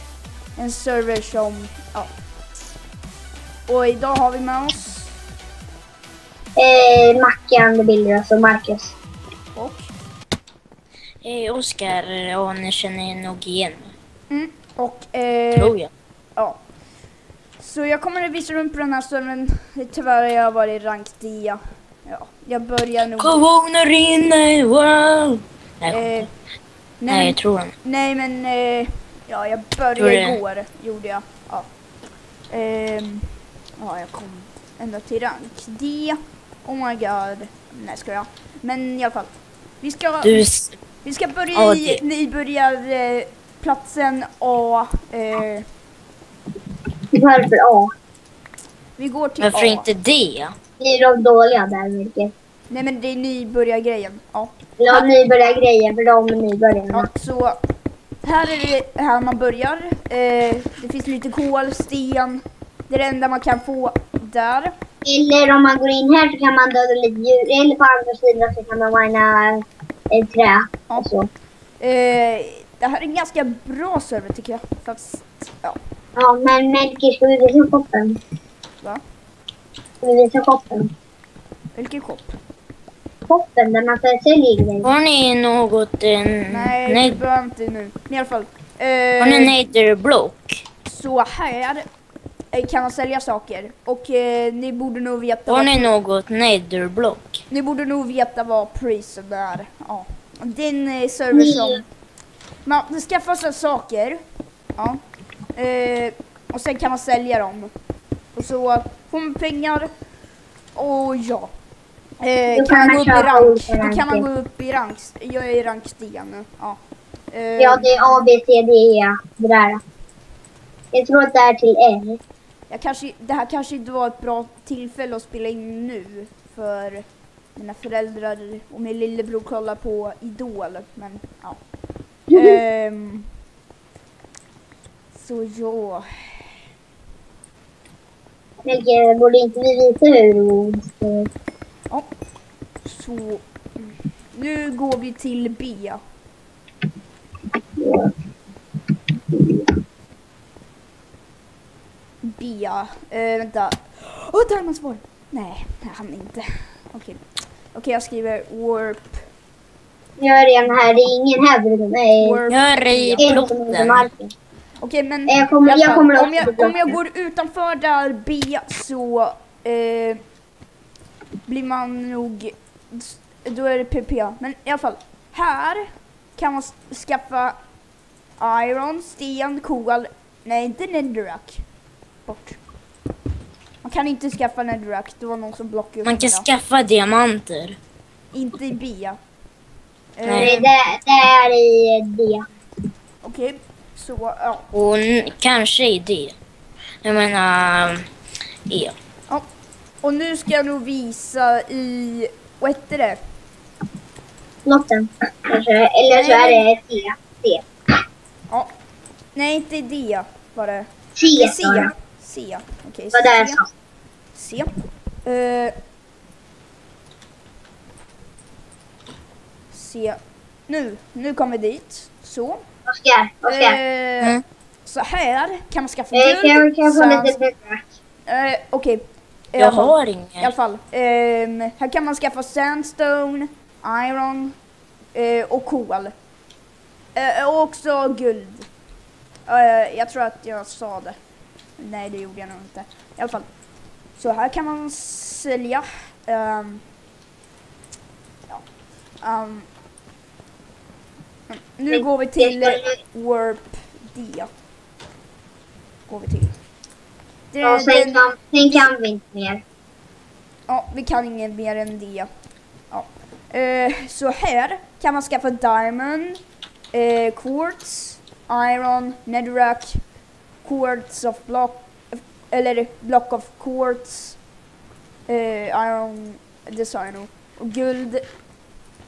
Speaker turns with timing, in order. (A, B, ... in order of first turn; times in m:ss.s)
0:00.6-0:02.1 A
0:03.7-0:05.1 A
0:06.6-0:08.9 B
0:09.6-0:09.9 A
0:11.2-0:13.9 C
0:14.3-0:15.8 A
0:15.6-0:15.9 C
0:17.6-0:23.4 A
0:23.2-0:26.3 C
0:25.9-0:26.3 A
0:27.0-0:31.7 A
0:27.1-0:27.7 C
0:30.0-0:30.4 C
0:32.5-0:40.4 A
0:40.2-0:40.8 C
0:41.0-0:45.6 A
0:41.5-0:42.0 C
0:47.2-0:47.9 B
0:49.0-0:49.9 A
0:49.4-0:50.5 C
0:50.8-0:52.3 B
0:52.7-0:55.1 A
0:54.8-0:57.0 B
0:56.9-0:57.6 A
0:58.2-1:04.7 A
1:05.1-1:09.6 B
1:10.1-1:11.3 B
1:11.8-1:15.8 A
1:16.2-1:18.1 B
1:20.0-1:20.8 B
1:21.8-1:22.4 A
1:23.3-1:24.8 B
1:24.8-1:27.2 C
1:26.5-1:29.6 A
1:29.2-1:30.6 C
1:30.8-1:31.9 A
1:32.5-1:35.9 A
1:35.5-1:37.4 C
1:37.5-1:41.8 A
1:42.6-1:44.2 A
1:45.6-1:47.7 A
1:48.4-1:49.9 A
1:50.8-1:51.5 A
1:52.2-1:56.8 A
1:52.5-1:54.2 B
1:57.3-1:58.3 A
1:57.6-1:59.8 B
2:00.9-2:02.2 B
2:02.7-2:07.0 A
2:07.6-2:11.7 A
2:12.3-2:13.3 A
2:15.1-2:16.4 A
2:18.7-2:21.3 B
2:22.8-2:26.0 A
2:27.8-2:28.1 B
2:29.4-2:29.6 B
2:32.2-2:37.2 A
2:37.7-2:39.3 A
2:40.2-2:42.4 B
2:42.2-2:43.4 A
2:42.5-2:44.1 C
2:43.2-2:44.3 B
2:44.8-2:50.2 A
2:45.3-2:46.8 B
2:51.5-2:55.8 A
2:56.4-2:57.6 A
2:58.4-3:01.6 A
3:02.3-3:02.6 A
3:03.8-3:06.5 A
3:06.0-3:07.8 C
3:08.3-3:09.2 A
3:10.2-3:10.7 A
3:10.3-3:10.7 C
3:10.4-3:12.4 B
3:13.2-3:14.7 A
3:14.7-3:16.4 C
3:17.0-3:18.1 C
3:18.7-3:19.0 C
3:20.0-3:23.2 A
3:24.7-3:27.6 B
3:26.1-3:26.6 A
3:29.4-3:33.6 A
3:31.2-3:31.8 B
3:33.1-3:33.6 B
3:34.4-3:34.7 A
3:35.2-3:35.7 A
3:39.7-3:42.6 A
3:42.9-3:43.7 B
3:43.5-3:47.4 A
3:46.1-3:47.9 B
3:48.3-3:54.6 A
3:49.6-3:50.5 C
3:55.2-3:56.1 A
3:57.2-3:58.7 A
3:59.5-4:01.2 A
4:01.8-4:03.5 A
4:04.2-4:06.8 A
4:09.2-4:09.7 A
4:11.5-4:14.5 A
4:12.4-4:13.0 B
4:16.1-4:16.6 A
4:17.5-4:18.9 A
4:17.6-4:19.6 B
4:20.7-4:22.3 A
4:22.9-4:26.4 A
4:26.9-4:30.0 A
4:30.6-4:34.4 A
4:35.3-4:38.2 A